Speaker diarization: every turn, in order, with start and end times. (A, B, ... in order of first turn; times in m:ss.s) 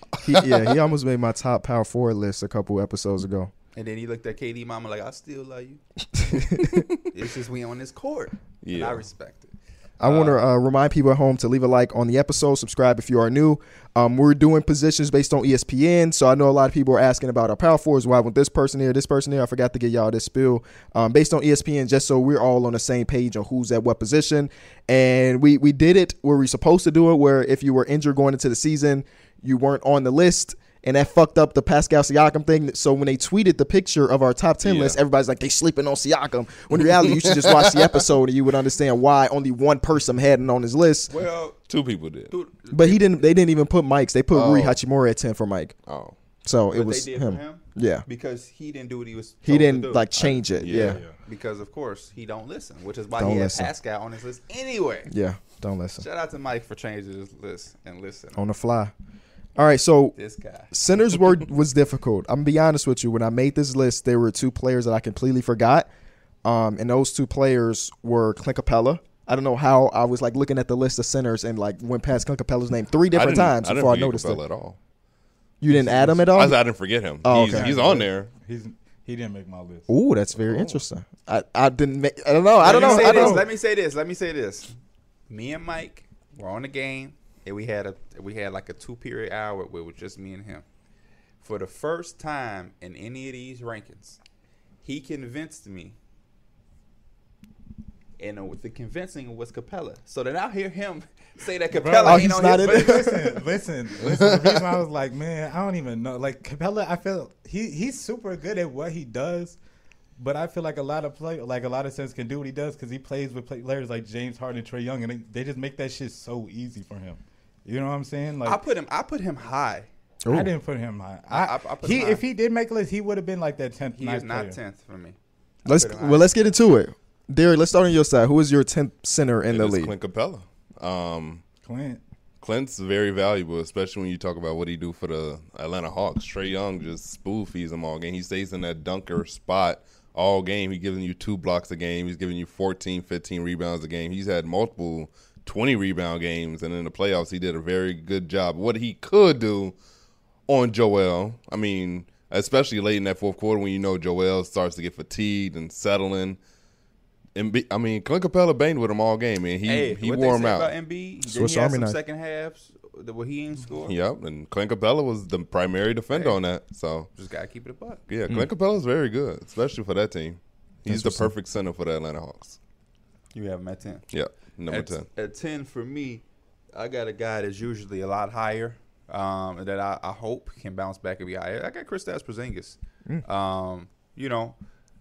0:00.2-0:00.7 A
0:00.2-0:03.5 B
0:03.7-0:05.8 C
0:06.2-0:06.8 B
0:06.5-0:07.0 A
0:07.1-0:09.5 C
0:08.6-0:09.0 A
0:10.0-0:41.1 B
0:10.0-0:10.3 C
0:34.6-0:35.0 A
0:36.8-0:38.0 A
0:41.1-0:41.6 C
0:41.7-0:42.3 A
0:42.3-0:43.3 C
0:42.7-0:45.7 B
0:44.3-0:44.8 A
0:45.8-0:46.2 A
0:46.4-0:48.0 B
0:46.7-0:55.1 C
0:49.4-0:51.0 B
0:50.6-0:51.0 A
0:50.7-0:51.2 D
0:53.2-0:53.7 B
0:55.1-0:56.0 B
0:56.0-0:58.4 C
0:58.4-0:58.9 B
0:59.6-1:00.1 B
1:00.1-1:00.7 C
1:00.7-1:05.9 B
1:06.4-1:14.4 B
1:13.1-1:14.8 A
1:15.6-1:16.6 B
1:15.7-1:16.3 D
1:16.3-1:18.3 A
1:17.2-1:17.7 B
1:17.3-1:19.9 D
1:19.9-1:23.4 B
1:20.4-1:20.8 A
1:22.6-1:24.7 C
1:22.6-1:23.5 D
1:25.3-1:30.6 C
1:31.4-1:34.2 C
1:34.8-1:36.0 C
1:38.2-1:43.3 C
1:41.7-1:49.6 D
1:42.0-1:43.3 B
1:44.0-1:44.6 A
1:50.2-1:58.6 D
1:58.4-1:59.9 C
2:00.2-2:00.5 B
2:00.3-2:04.6 D
2:01.3-2:02.2 C
2:03.9-2:06.5 C
2:05.6-2:09.9 B
2:09.5-2:11.4 A
2:11.6-2:12.0 D
2:12.4-2:29.7 A
2:30.5-2:36.4 A
2:37.3-2:40.7 A
2:39.6-2:43.9 C
2:41.2-2:42.0 B
2:43.8-2:47.1 A
2:46.1-2:46.4 C
2:47.1-2:48.0 C
2:48.1-2:52.6 A
2:50.9-2:51.3 B
2:53.3-2:54.0 C
2:54.1-2:55.0 A
2:54.7-3:04.6 C